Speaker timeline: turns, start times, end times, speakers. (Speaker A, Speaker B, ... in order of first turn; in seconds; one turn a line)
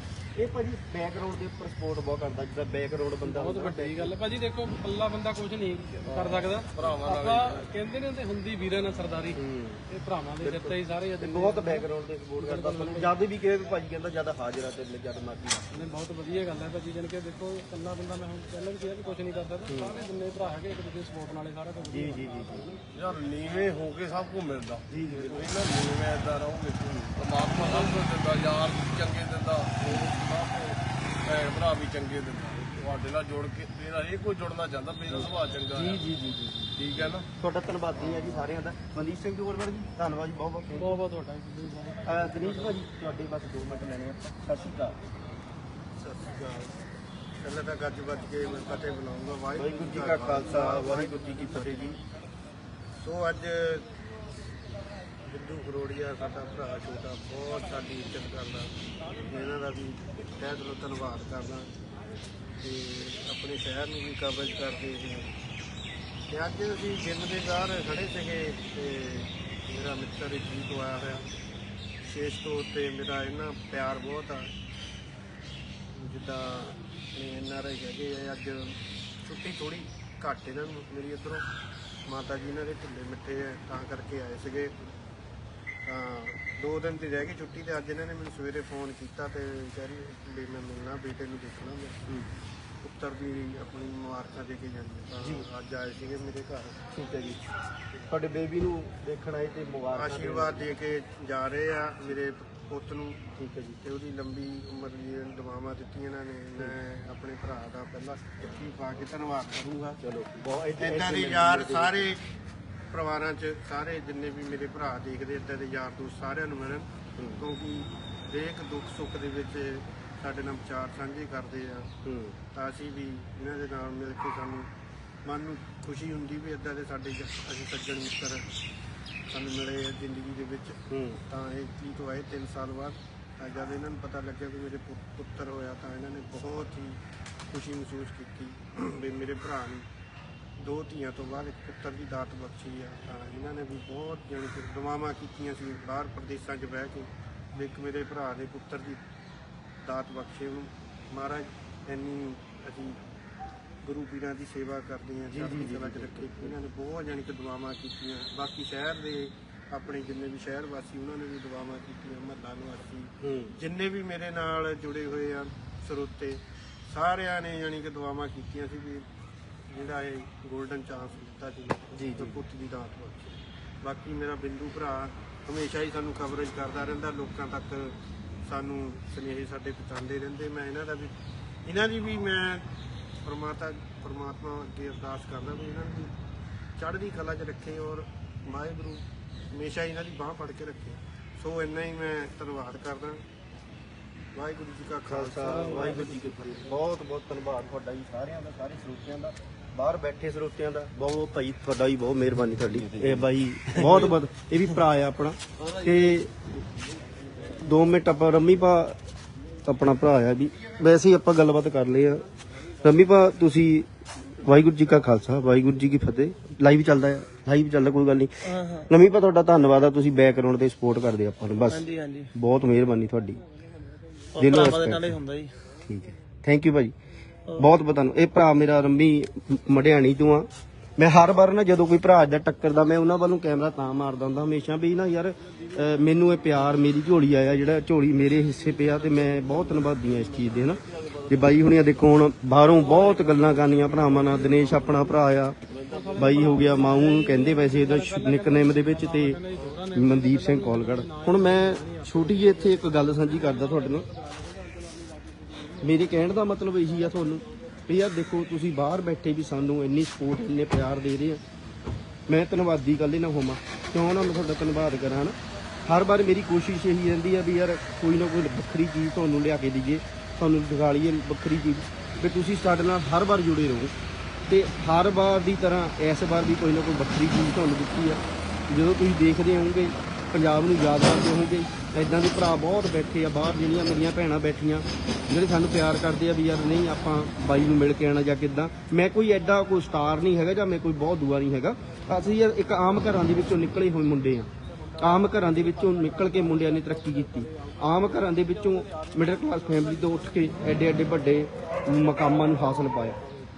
Speaker A: 0.4-4.1
Speaker B: 3.2-11.9
Speaker C: 6.1-7.7
Speaker A: 9.3-9.8
Speaker A: 10.4-15.9
Speaker B: 12.4-13.1
Speaker B: 15.7-22.8
Speaker A: 19.7-20.0
Speaker A: 21.9-22.8
Speaker C: 22.9-36.1
Speaker A: 24.9-25.5
Speaker A: 26.8-27.2
Speaker B: 27.6-27.9
Speaker A: 29.8-30.1
Speaker A: 35.1-41.0
Speaker C: 36.8-37.2
Speaker B: 40.7-42.7
Speaker A: 42.0-45.0
Speaker D: 45.9-46.8
Speaker D: 47.4-52.0
Speaker A: 49.6-52.0
Speaker D: 53.0-53.9
Speaker D: 55.2-58.7
Speaker D: 59.2-61.7
Speaker D: 62.6-65.3
Speaker D: 66.3-71.2
Speaker D: 72.0-74.5
Speaker D: 75.9-81.5
Speaker D: 82.1-84.7
Speaker D: 85.9-92.0
Speaker D: 92.8-96.8
Speaker A: 95.2-95.5
Speaker A: 96.9-97.4
Speaker A: 98.1-100.7
Speaker D: 99.9-103.3
Speaker A: 103.4-103.8
Speaker D: 103.8-110.0
Speaker A: 110.0-112.1
Speaker D: 110.8-112.3
Speaker D: 112.9-121.9
Speaker A: 117.2-117.4
Speaker A: 122.0-122.4
Speaker D: 122.5-124.7
Speaker D: 125.2-128.4
Speaker D: 129.3-139.9
Speaker A: 130.9-131.2
Speaker D: 140.6-149.0
Speaker D: 149.8-153.0
Speaker D: 153.8-169.1
Speaker A: 155.3-156.6
Speaker A: 163.2-163.6
Speaker D: 169.7-181.1
Speaker A: 171.9-172.4
Speaker D: 181.6-182.7
Speaker D: 183.2-186.1
Speaker D: 186.8-193.2
Speaker D: 194.3-196.3
Speaker A: 195.1-206.4
Speaker A: 207.5-209.0
Speaker A: 209.6-212.2
Speaker A: 212.8-223.4
Speaker E: 218.5-218.9
Speaker E: 221.7-222.3
Speaker A: 224.4-225.2
Speaker E: 224.4-225.6
Speaker A: 225.9-226.9
Speaker A: 227.5-245.6
Speaker C: 239.0-241.9
Speaker C: 242.8-245.1
Speaker C: 245.7-246.7
Speaker B: 245.9-256.0
Speaker A: 246.2-249.4
Speaker A: 249.9-254.1
Speaker A: 255.8-261.4
Speaker A: 262.3-273.9
Speaker A: 274.5-303.2